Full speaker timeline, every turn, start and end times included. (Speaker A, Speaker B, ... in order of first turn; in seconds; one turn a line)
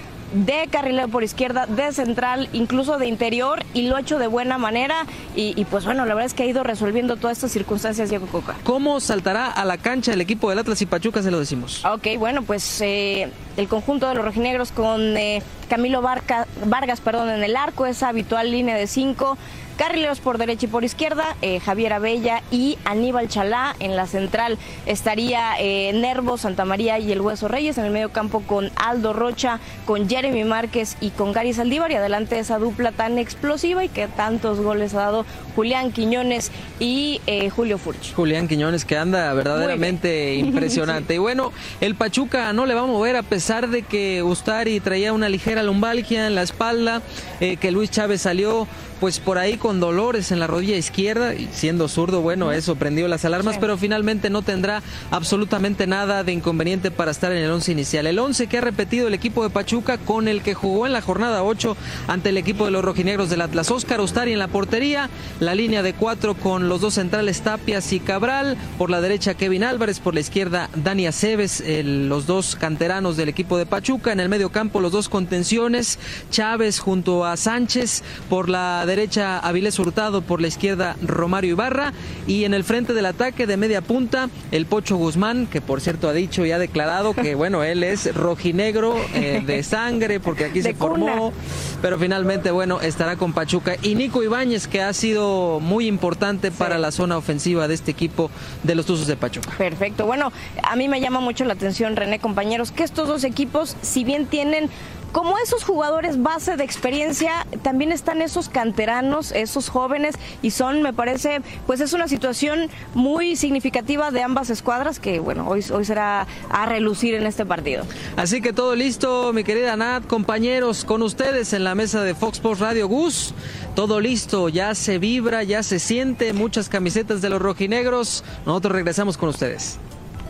Speaker A: 0.3-8.6
Speaker B: 8.6-11.8
Speaker A: 11.8-38.1
Speaker B: 38.1-99.5
Speaker A: 39.5-41.1
Speaker A: 89.1-89.5
Speaker A: 90.4-91.3
Speaker A: 96.5-96.8
Speaker A: 99.6-117.9
Speaker B: 118.2-129.8